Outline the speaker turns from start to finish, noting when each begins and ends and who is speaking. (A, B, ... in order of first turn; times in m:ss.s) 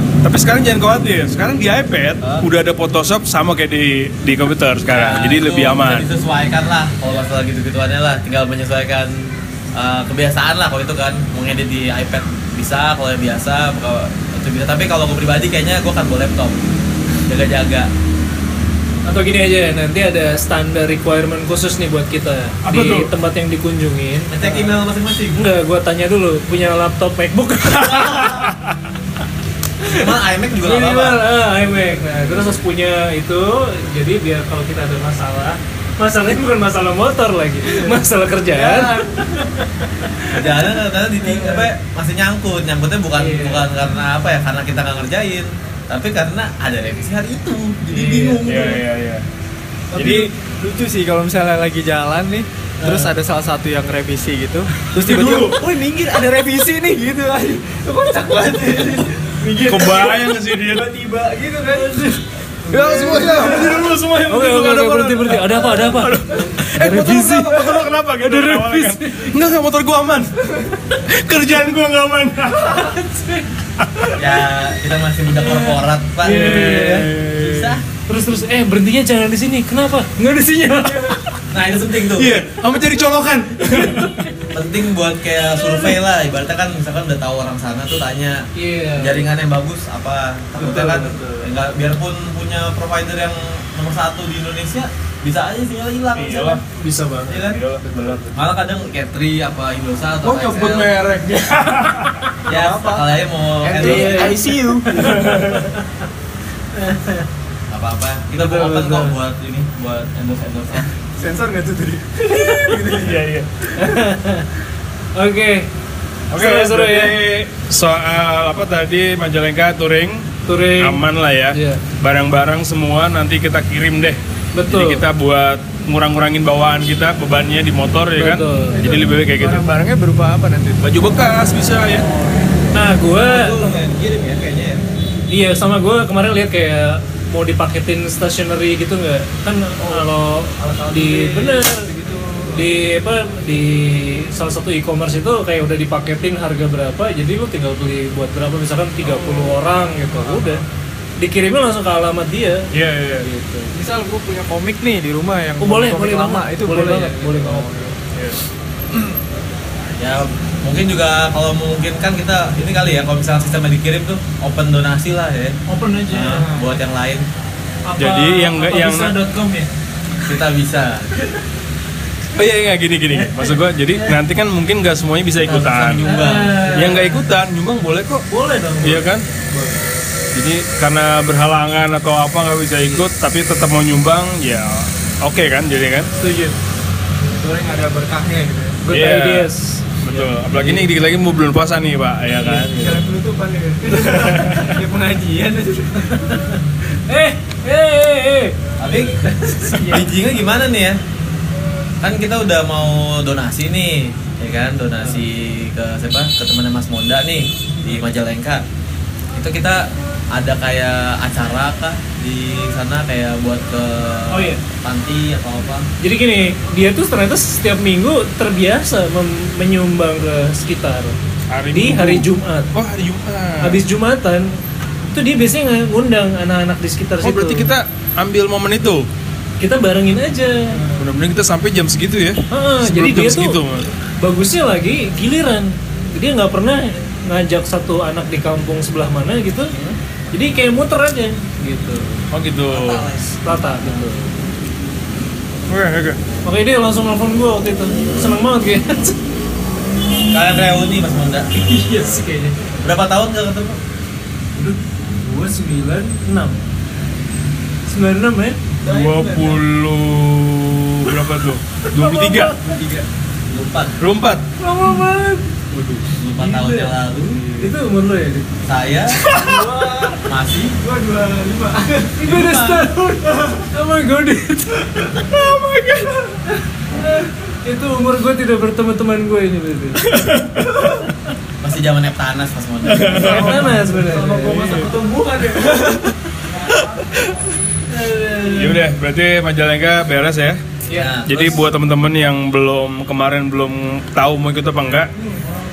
0:00.2-0:06.1 A
0:04.9-0:16.6 B
0:17.3-0:17.9 B
0:19.0-0:24.3 C
0:22.6-0:23.1 A
0:24.3-0:25.4 B
0:25.3-0:28.4 C
0:29.8-0:40.2 C
0:29.9-0:31.2 B
0:37.6-0:38.0 D
0:38.5-0:39.2 D
0:40.3-0:48.4 B
0:41.2-0:41.7 D
0:43.2-0:43.7 C
0:47.9-0:48.7 C
0:48.4-0:49.2 A
0:49.9-1:02.0 D
0:49.9-0:50.3 A
0:52.8-0:53.1 C
0:55.0-0:55.6 A
0:59.6-1:00.9 A
1:01.7-1:03.4 C
1:02.7-1:12.8 A
1:02.8-1:03.9 D
1:04.3-1:09.3 C
1:12.6-1:13.4 C
1:13.8-1:14.2 A
1:14.2-1:17.8 B
1:15.4-1:15.7 C
1:16.2-1:17.1 C
1:16.2-1:17.8 A
1:18.0-1:21.2 C
1:21.5-1:22.4 B
1:22.1-1:24.1 A
1:23.8-1:24.3 C
1:24.5-1:28.4 B
1:28.6-1:29.2 C
1:29.0-1:36.5 B
1:30.8-1:31.0 A
1:30.8-1:31.2 C
1:36.1-1:36.6 A
1:36.3-1:38.2 C
1:37.3-1:37.6 B
1:37.5-1:38.4 A
1:38.3-1:40.9 B
1:40.2-1:42.3 A
1:42.5-1:44.4 B
1:42.5-1:43.1 D
1:43.6-1:45.2 D
1:43.8-1:44.4 C
1:44.9-1:45.7 A
1:44.9-1:46.0 C
1:46.7-1:47.3 C
1:47.7-1:50.9 B
1:48.4-1:49.2 C
1:51.2-1:53.2 D
1:52.4-1:52.8 C
1:52.5-1:53.5 A
1:53.8-1:54.5 C
1:55.2-1:55.7 C
1:56.3-2:00.2 A
1:56.4-1:57.3 C
2:00.4-2:01.8 C
2:00.8-2:09.7 A
2:04.5-2:05.0 C
2:08.2-2:08.8 C
2:08.8-2:10.8 D
2:10.8-2:12.0 A
2:11.9-2:12.7 D
2:12.7-2:13.6 C
2:13.3-2:14.8 D
2:15.3-2:21.9 C
2:20.6-2:22.7 D
2:22.5-2:30.6 C
2:29.0-2:29.5 D
2:30.1-2:30.6 D
2:31.2-2:33.7 C
2:32.7-2:33.3 A
2:33.7-2:38.1 D
2:35.6-2:37.7 C
2:38.9-2:39.2 D
2:40.0-2:45.6 B
2:45.7-2:46.8 C
2:46.1-2:47.2 B
2:47.8-2:49.7 C
2:48.0-2:49.1 A
2:50.2-2:51.1 B
2:52.3-2:56.0 A
2:53.1-2:54.1 C
2:55.4-2:56.8 B
2:56.0-2:57.2 C
2:56.7-2:58.2 A
2:58.3-2:59.8 C
2:58.8-2:59.3 A
3:00.3-3:06.1 A
3:06.2-3:06.6 C
3:07.3-3:08.8 D
3:08.8-3:10.8 C
3:08.9-3:09.5 A
3:10.0-3:13.0 A
3:12.5-3:16.3 D
3:14.0-3:14.8 A
3:16.2-3:20.1 C
3:18.8-3:19.2 B
3:19.7-3:21.0 B
3:22.0-3:28.6 B
3:27.8-3:28.0 C
3:29.3-3:35.9 B
3:34.3-3:34.6 C
3:36.0-3:41.2 C
3:41.5-3:43.8 A
3:41.7-3:42.7 C
3:43.6-3:47.7 C
3:47.2-3:49.1 A
3:49.6-3:50.8 C
3:50.9-3:53.9 A
3:52.5-3:53.6 C
3:54.2-3:59.7 C
4:00.3-4:02.2 C
4:02.3-4:03.1 A
4:02.7-4:04.3 C
4:05.7-4:06.2 A
4:06.4-4:09.2 C
4:10.3-4:11.5 B
4:11.5-4:12.6 C
4:12.8-4:13.8 B
4:14.5-4:16.6 C
4:17.8-4:18.6 C
4:18.8-4:19.6 D
4:18.8-4:22.6 A
4:21.9-4:22.5 C
4:22.7-4:23.0 D
4:23.4-4:24.0 B
4:24.0-4:24.4 A
4:24.6-4:25.5 C
4:25.7-4:26.1 A
4:26.2-4:27.4 B
4:26.3-4:27.0 C
4:27.6-4:28.5 C
4:28.6-4:29.2 B
4:29.3-4:30.2 D
4:29.3-4:30.1 C
4:30.2-4:30.8 B
4:30.8-4:32.1 D
4:32.1-4:35.2 C
4:32.2-4:32.9 B
4:35.2-4:36.4 D
4:37.0-4:40.0 C
4:40.1-4:40.9 A
4:41.6-4:43.6 B
4:42.9-4:43.7 A
4:43.2-4:44.9 C
4:43.2-4:46.1 D
4:47.9-4:48.8 C
4:48.4-4:50.6 A
4:50.9-4:51.6 B
4:51.2-4:55.1 A